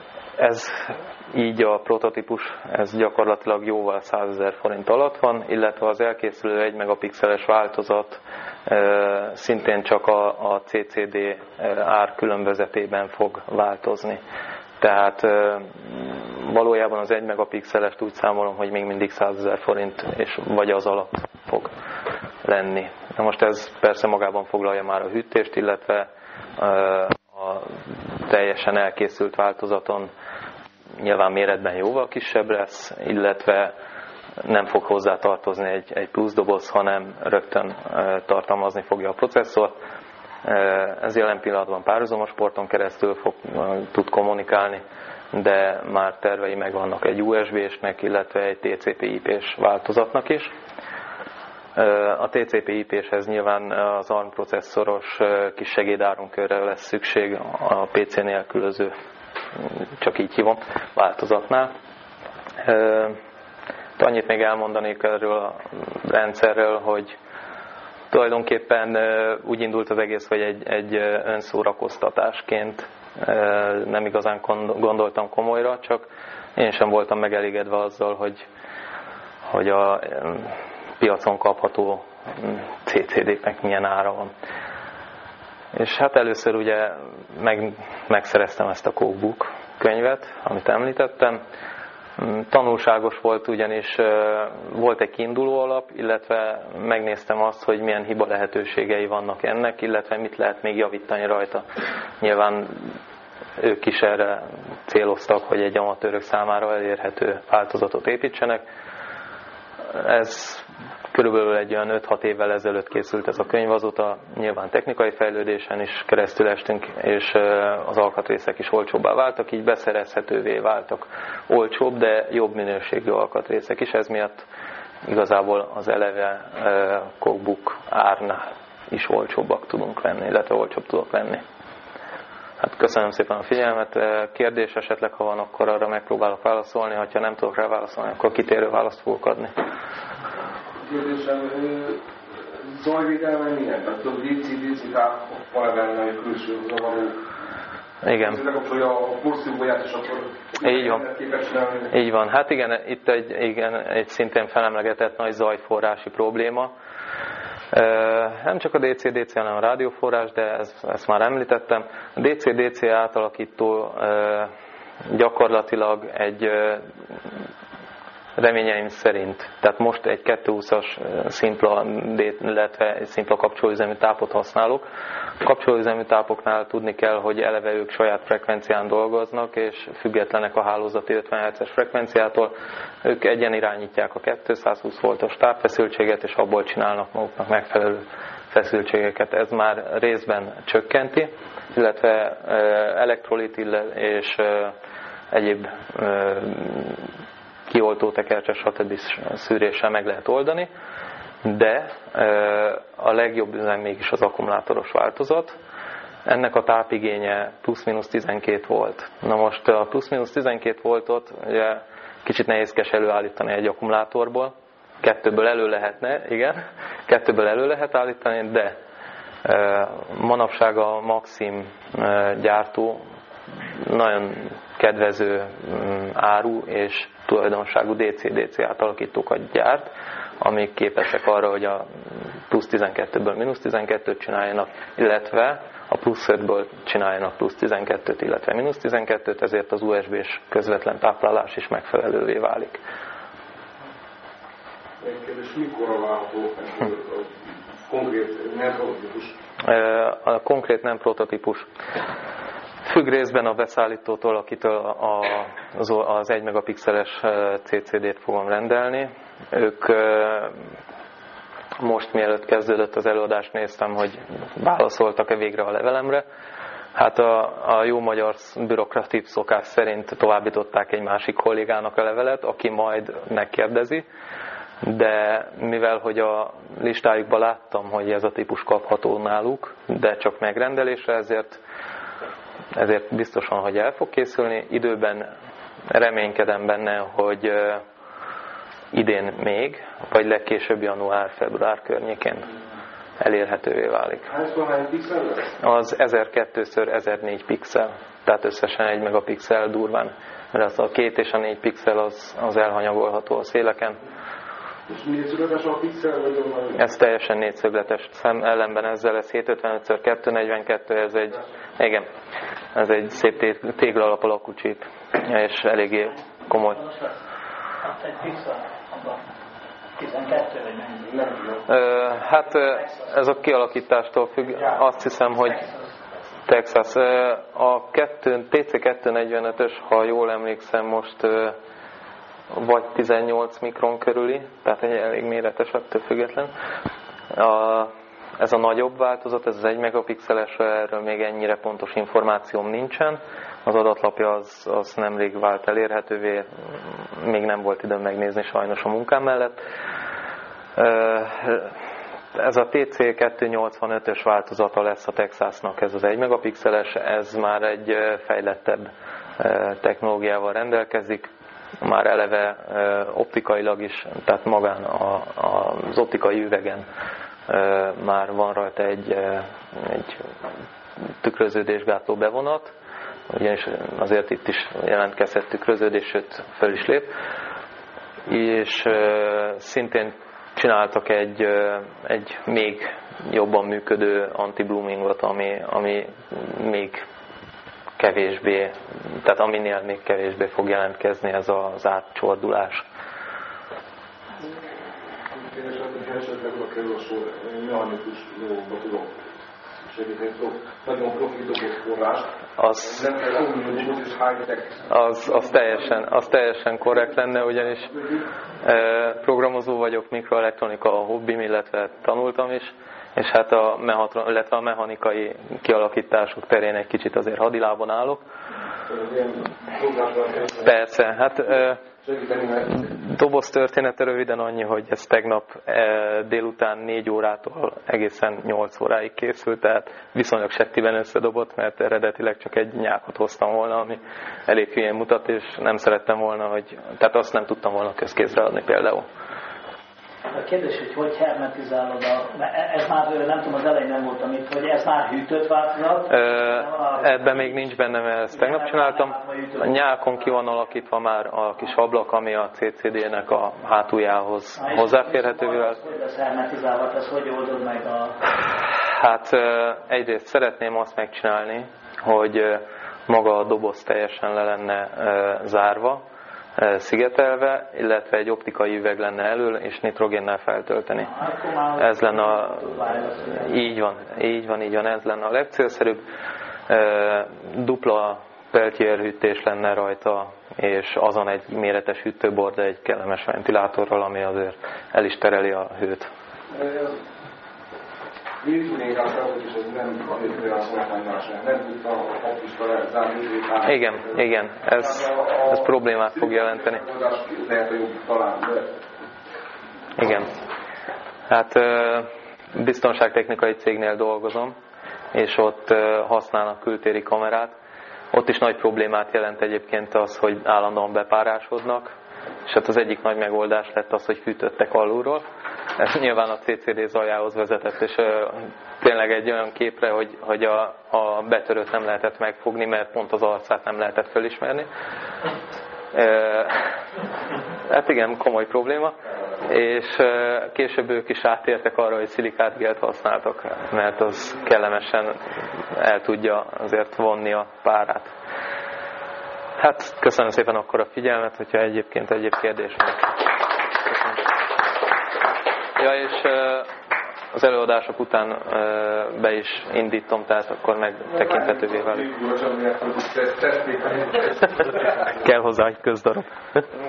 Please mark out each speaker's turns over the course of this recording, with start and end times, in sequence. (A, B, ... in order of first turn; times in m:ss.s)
0:00.4-0:14.2 A
0:14.8-0:21.7 A
0:22.4-0:30.1 A
0:31.0-0:33.7 A
0:34.4-0:39.7 A
0:40.4-0:50.5 A
0:51.8-0:58.9 A
0:59.6-1:01.7 A
1:02.6-1:03.2 A
1:04.0-1:07.1 A
1:08.1-1:16.0 A
1:16.6-1:18.4 A
1:19.5-1:24.3 A
1:25.7-1:31.4 A
1:32.2-1:41.6 A
1:42.2-1:42.9 A
1:43.6-1:48.6 A
1:49.9-2:04.4 A
2:05.0-2:11.4 A
2:12.6-2:19.5 A
2:20.8-2:27.2 B
2:28.0-2:28.4 A
2:28.2-2:31.9 B
2:30.6-2:31.0 A
2:31.9-2:36.7 A
2:37.7-2:44.5 A
2:45.1-2:46.8 A
2:48.4-2:54.8 A
2:55.4-3:14.7 A
3:15.3-3:17.0 A
3:17.7-3:20.7 A
3:21.4-3:25.6 A
3:26.2-3:38.8 A
3:39.4-3:43.0 A
3:43.8-3:49.9 A
3:50.4-3:51.8 A
3:52.5-4:02.8 A
4:05.0-4:09.3 B
4:09.6-4:11.6 A
4:12.8-4:20.5 A
4:21.8-4:26.2 A
4:26.9-4:34.0 A
4:34.8-4:41.6 A
4:42.7-4:45.3 A
4:45.9-4:47.8 A
4:48.9-4:52.5 A
4:53.2-4:54.3 A
4:54.3-4:55.6 B
4:55.6-5:04.0 A
5:04.9-5:06.9 B
5:06.8-5:12.1 A
5:12.7-5:16.8 A
5:18.0-5:19.2 C
5:20.0-5:21.1 C
5:21.0-5:21.6 B
5:21.7-5:25.7 A
5:26.4-5:31.6 A
5:32.5-5:36.5 A
5:37.3-5:46.5 A
5:47.1-5:49.6 A
5:50.8-5:51.7 A
5:52.3-6:01.3 A
6:01.8-6:06.8 A
6:07.5-6:10.2 A
6:11.2-6:12.7 A
6:13.3-6:17.1 A
6:18.3-6:27.0 A
6:28.0-6:32.8 A
6:35.3-6:44.9 B
6:42.6-6:43.1 A
6:44.9-6:48.0 A
6:47.9-6:48.2 B
6:48.6-6:58.2 A
6:58.9-7:00.7 B
7:00.6-7:01.8 A
7:02.0-7:02.9 B
7:02.8-7:19.0 A
7:20.3-7:27.0 C
7:26.1-7:35.8 A
7:28.5-7:29.6 C
7:34.6-7:38.2 C
7:38.9-7:46.0 A
7:46.6-7:51.2 A
7:51.1-7:53.5 C
7:51.8-7:56.0 A
7:56.7-8:06.1 A
8:06.5-8:07.0 B
8:08.4-8:14.2 B
8:13.6-8:16.8 A
8:14.8-8:18.8 B
8:20.0-8:20.4 A
8:21.3-8:24.5 A
8:25.1-8:27.6 A
8:28.1-8:31.9 A
8:32.4-8:35.2 A
8:35.8-8:44.7 A
8:45.9-8:46.7 A
8:47.7-8:55.2 A
8:55.7-8:58.1 A
8:59.6-9:03.2 A
9:03.8-9:04.2 A
9:05.8-9:06.7 A
9:07.3-9:12.1 A
9:11.1-9:14.9 B
9:14.9-9:16.6 A